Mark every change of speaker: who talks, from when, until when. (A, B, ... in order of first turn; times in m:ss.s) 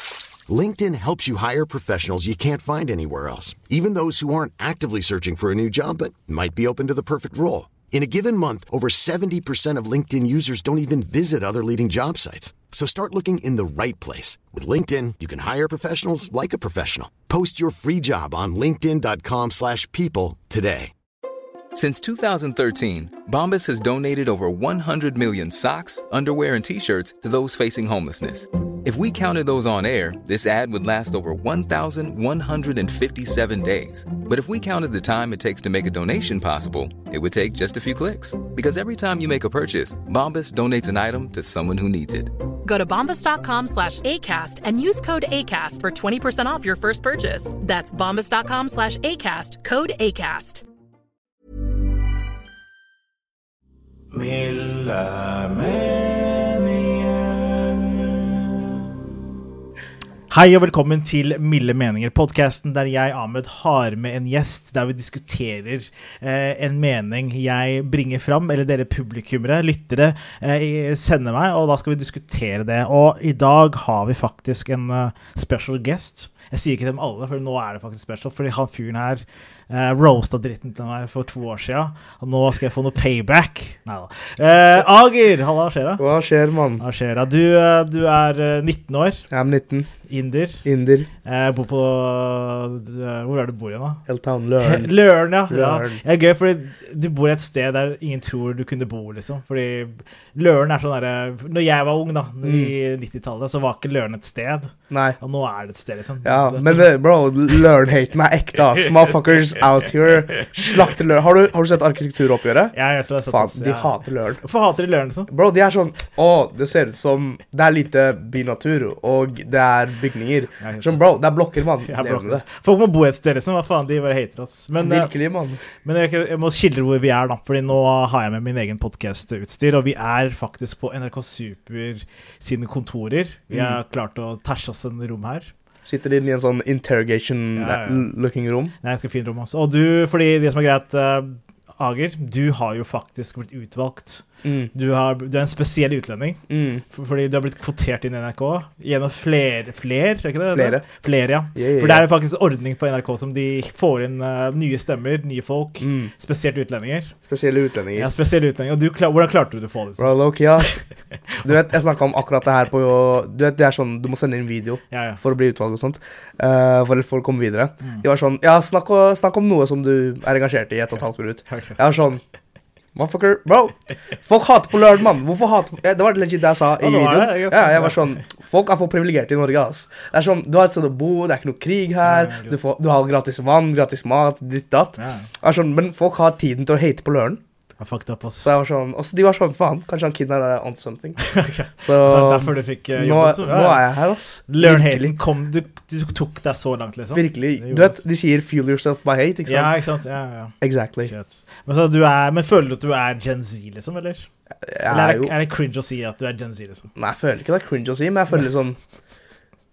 0:00.5-0:20.9 A
0:21.7-0:42.3 B
0:42.6-0:50.6 C
1:00.3-1:26.0 D
1:26.0-1:26.8 E
1:26.8-1:29.2 D
1:29.3-1:29.9 E
1:30.1-1:30.7 D
1:30.6-1:31.1 E
1:31.2-1:34.0 D
1:34.1-1:34.9 E
1:34.6-1:46.9 D
1:35.5-1:36.0 E
1:42.4-1:42.7 E
1:44.9-1:45.2 E
1:46.2-1:52.8 E
1:52.7-1:55.3 D
1:53.3-1:54.4 E
1:55.3-2:02.4 E
2:00.6-2:01.0 D
2:01.8-2:05.1 D
2:04.8-2:05.6 E
2:05.8-2:15.5 D
2:13.5-2:13.8 E
2:15.8-2:18.7 E
2:17.6-2:18.1 D
2:18.8-2:37.2 D
2:24.4-2:24.7 E
2:26.5-2:26.8 E
2:30.5-2:30.8 E
2:31.6-2:32.1 E
2:35.8-2:36.1 E
2:37.3-2:38.1 E
2:38.0-2:40.1 D
2:40.0-2:40.8 E
2:41.4-2:52.2 E
2:44.9-2:45.2 D
2:51.5-2:51.8 D
2:53.0-3:07.4 E
2:56.8-2:58.3 D
3:02.0-3:02.6 D
3:05.0-3:05.3 D
3:07.8-3:08.5 D
3:08.4-3:11.2 E
3:11.2-3:13.8 D
3:11.8-3:15.2 E
3:14.5-3:18.0 D
3:17.1-3:19.8 E
3:19.5-3:24.3 D
3:20.6-3:21.1 E
3:24.7-3:25.3 E
3:24.9-3:26.9 D
3:27.0-3:28.8 E